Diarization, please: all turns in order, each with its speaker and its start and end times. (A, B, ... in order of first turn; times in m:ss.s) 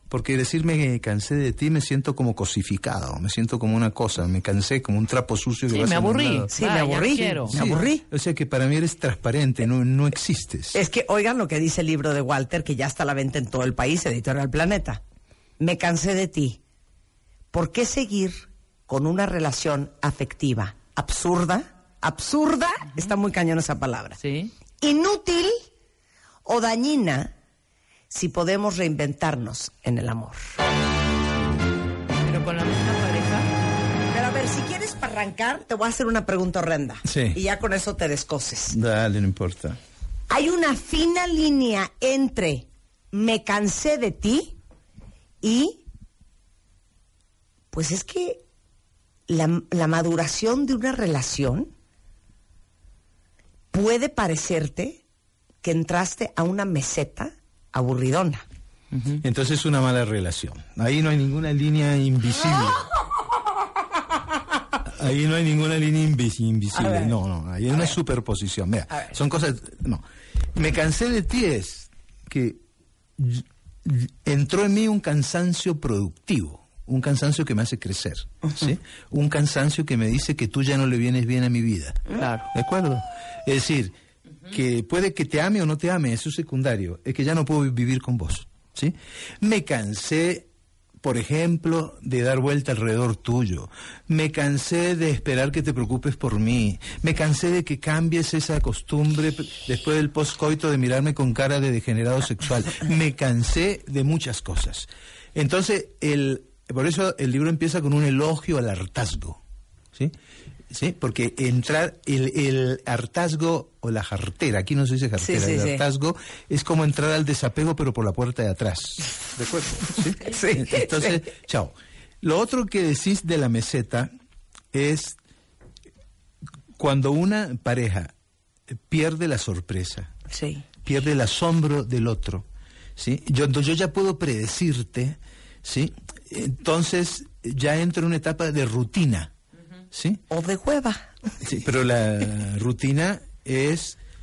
0:00.1-0:06.5 A
0:05.7-0:07.5 B
0:06.5-0:08.0 C
0:07.5-0:10.8 A
0:10.7-0:15.0 C
0:15.6-0:16.6 C
0:17.5-0:24.2 C
0:24.2-0:24.5 B
0:24.8-0:25.6 C
0:26.4-0:27.3 C
0:28.1-0:30.4 C
0:32.2-0:33.5 B
0:34.1-0:38.8 C
0:37.0-0:37.4 A
0:38.7-0:39.8 A
0:40.3-0:44.5 C
0:45.4-0:45.8 C
0:47.7-0:48.4 C
0:49.3-0:51.7 C
0:53.7-0:55.0 C
0:55.6-0:58.4 C
0:58.9-0:59.2 B
0:59.2-1:02.9 A
1:04.8-1:10.0 A
1:06.8-1:07.1 C
1:10.5-1:12.6 A
1:13.2-1:23.9 A
1:22.1-1:22.5 B
1:24.5-1:30.5 A
1:31.0-1:49.4 A
1:50.7-2:04.1 A
1:55.2-1:55.8 C
2:00.2-2:01.2 C
2:04.7-2:05.2 A
2:06.8-2:08.1 A
2:08.7-2:10.1 A
2:10.3-2:10.6 C
2:10.8-2:12.4 A
2:13.0-2:19.3 A
2:19.9-2:20.2 A
2:20.3-2:21.1 C
2:21.4-2:24.0 A